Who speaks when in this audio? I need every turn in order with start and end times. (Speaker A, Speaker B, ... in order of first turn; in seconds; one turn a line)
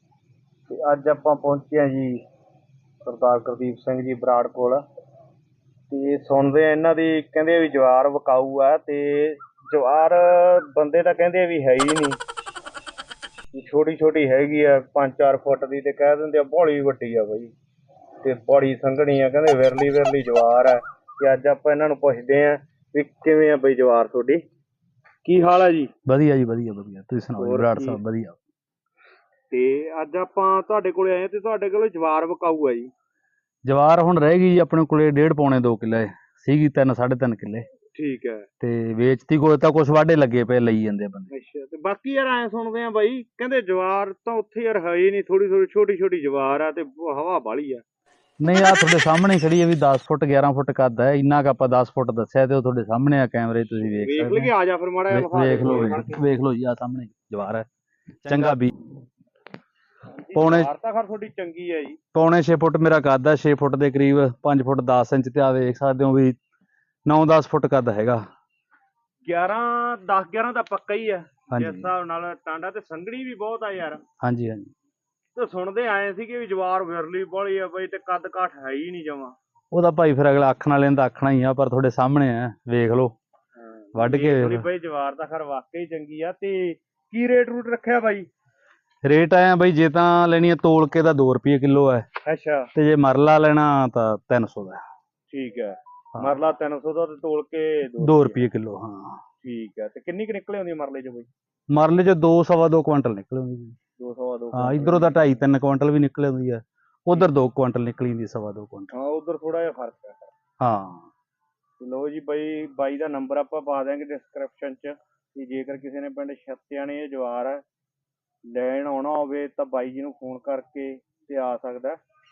Speaker A: 0.7-2.2
Speaker A: 3.0-4.8
Speaker A: 5.9-12.2
Speaker A: 13.5-17.5
Speaker A: 18.2-24.4
Speaker A: 25.2-25.9
Speaker B: 26.1-28.4
Speaker A: 27.4-28.0
Speaker A: 29.5-32.9
Speaker B: 33.7-37.7
Speaker A: 37.9-38.5
Speaker B: 38.6-41.3
Speaker A: 41.3-47.8
Speaker B: 48.4-54.5
Speaker A: 53.8-56.2
Speaker B: 55.1-57.7
Speaker B: 58.2-58.7
Speaker A: 58.2-58.6
Speaker A: 60.2-62.0
Speaker B: 60.4-60.7
Speaker B: 62.1-66.4
Speaker B: 67.1-68.2
Speaker A: 69.3-74.0
Speaker B: 71.5-71.9
Speaker B: 74.2-74.7
Speaker A: 75.3-79.4
Speaker B: 79.7-83.1
Speaker A: 83.7-88.3
Speaker B: 84.0-84.7
Speaker B: 89.0-92.0
Speaker A: 92.2-92.7
Speaker B: 92.8-94.8
Speaker A: 95.3-98.4
Speaker B: 98.0-99.2
Speaker A: 99.4-101.3
Speaker B: 101.7-103.8
Speaker A: 104.0-105.4
Speaker B: 104.5-108.9
Speaker A: 108.9-110.3
Speaker B: 110.6-111.1
Speaker A: 111.8-117.6
Speaker A: 118.5-122.0